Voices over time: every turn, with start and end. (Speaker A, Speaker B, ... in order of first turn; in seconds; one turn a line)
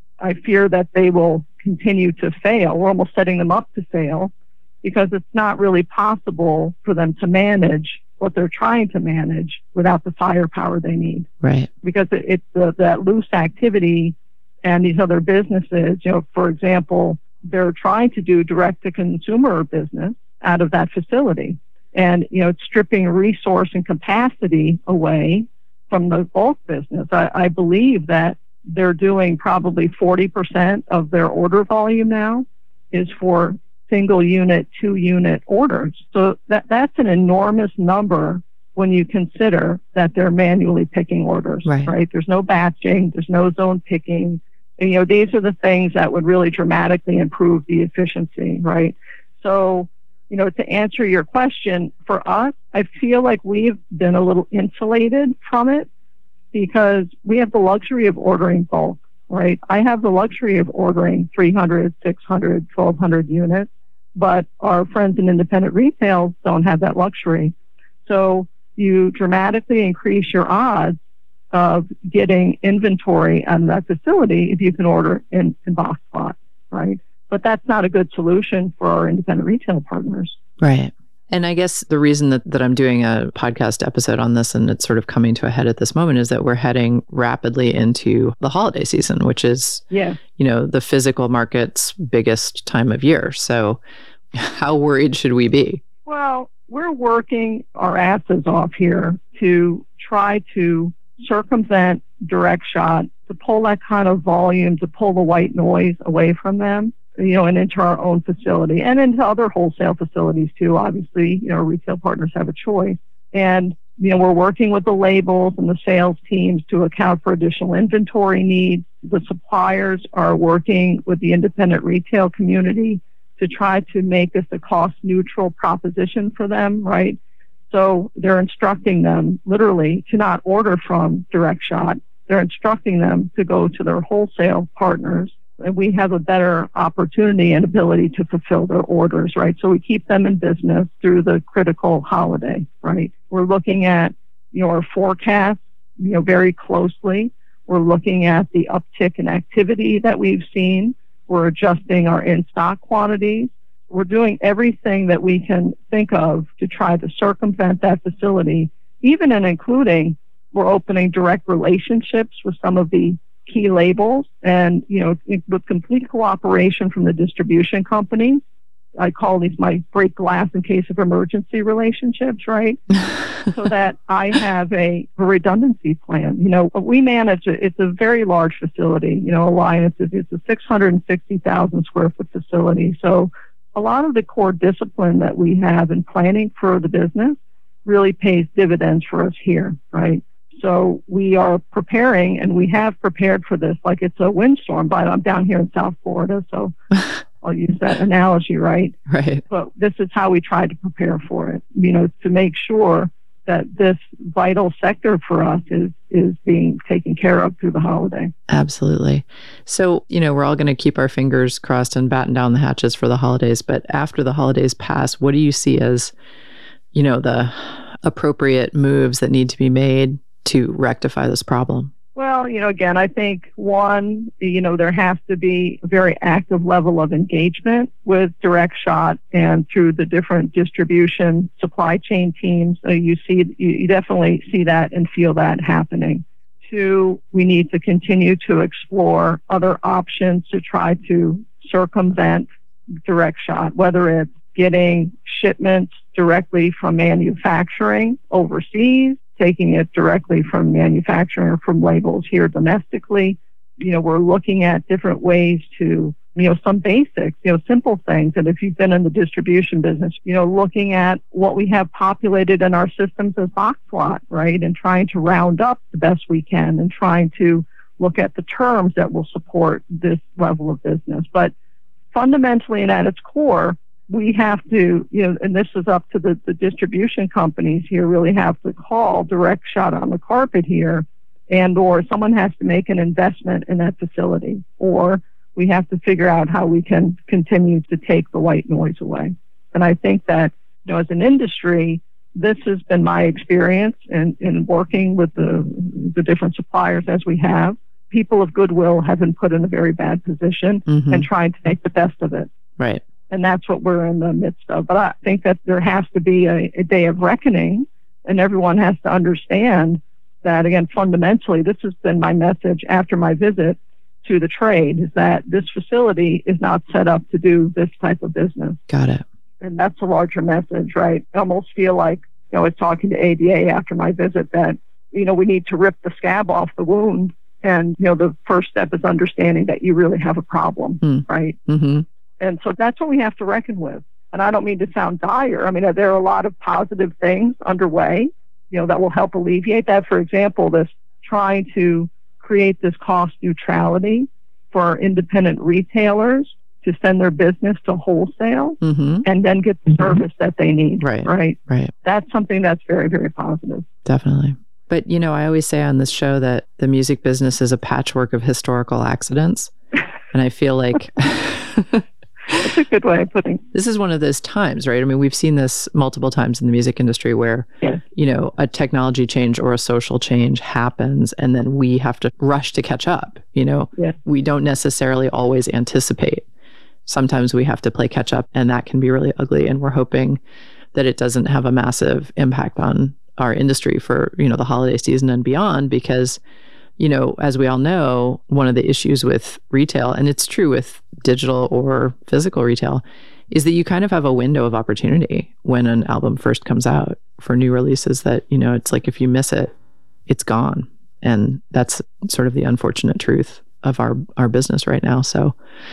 Speaker A: 0.2-4.3
Speaker A: 4.8-11.3
Speaker B: 11.4-11.7
Speaker A: 11.8-55.9
Speaker B: 41.6-42.0
Speaker A: 56.5-67.5
Speaker A: 68.1-71.0
Speaker A: 71.5-80.4
Speaker B: 80.6-93.8
Speaker A: 89.9-90.2
Speaker B: 94.3-95.8
Speaker A: 96.1-127.2
Speaker A: 127.7-168.4
Speaker A: 169.0-172.8
Speaker A: 173.5-196.8
Speaker A: 197.4-199.0
Speaker B: 199.1-199.4
Speaker A: 199.5-208.3
Speaker B: 208.5-216.1
Speaker B: 216.9-221.9
Speaker A: 222.2-242.5
Speaker A: 243.1-271.5
Speaker A: 272.1-302.5
Speaker B: 300.9-301.3
Speaker B: 302.8-303.0
Speaker A: 303.3-318.8
Speaker B: 318.9-319.2
Speaker A: 319.6-331.6
Speaker B: 331.0-332.1
Speaker A: 332.4-353.9
Speaker B: 348.8-349.2
Speaker B: 351.0-351.9
Speaker B: 354.1-359.7
Speaker B: 360.3-362.0
Speaker A: 362.5-363.6
Speaker B: 363.7-376.4
Speaker B: 377.1-380.4
Speaker B: 380.9-386.4
Speaker B: 387.0-399.7
Speaker B: 400.3-405.6